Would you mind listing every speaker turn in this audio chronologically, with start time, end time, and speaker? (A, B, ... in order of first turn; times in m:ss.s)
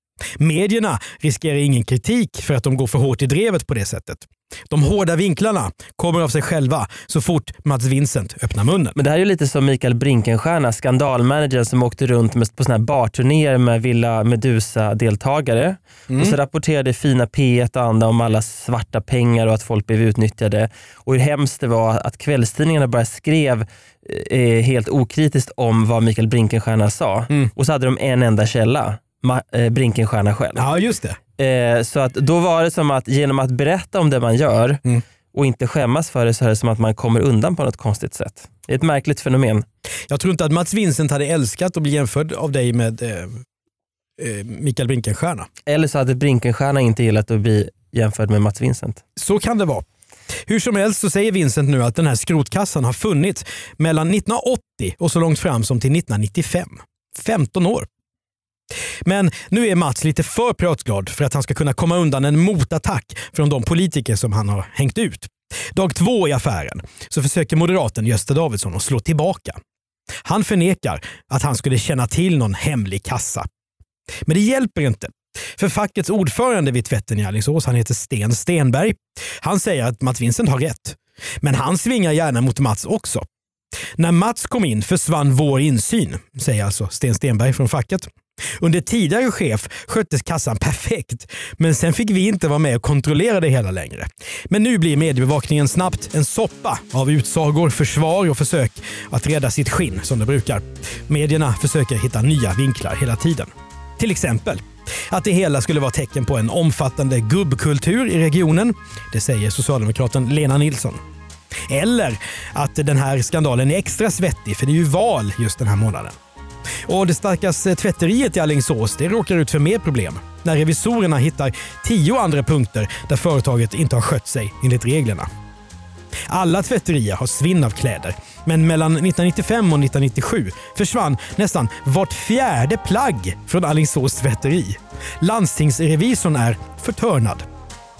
0:00.4-0:09.0 A
0:09.0-0:30.6 B
0:16.1-0:16.4 A
0:30.6-0:31.2 A
0:31.4-0:34.8 B
0:35.3-0:39.6 B
0:40.1-0:43.4 A
0:44.2-0:45.5 A
0:45.6-0:49.0 B
0:49.2-0:49.8 A
0:50.5-0:57.9 A
0:59.0-1:09.6 A
1:10.2-1:13.5 A
1:14.2-1:23.2 A
1:24.0-1:51.0 A
1:51.7-1:56.2 A
1:56.8-2:05.3 A
2:06.3-2:17.4 A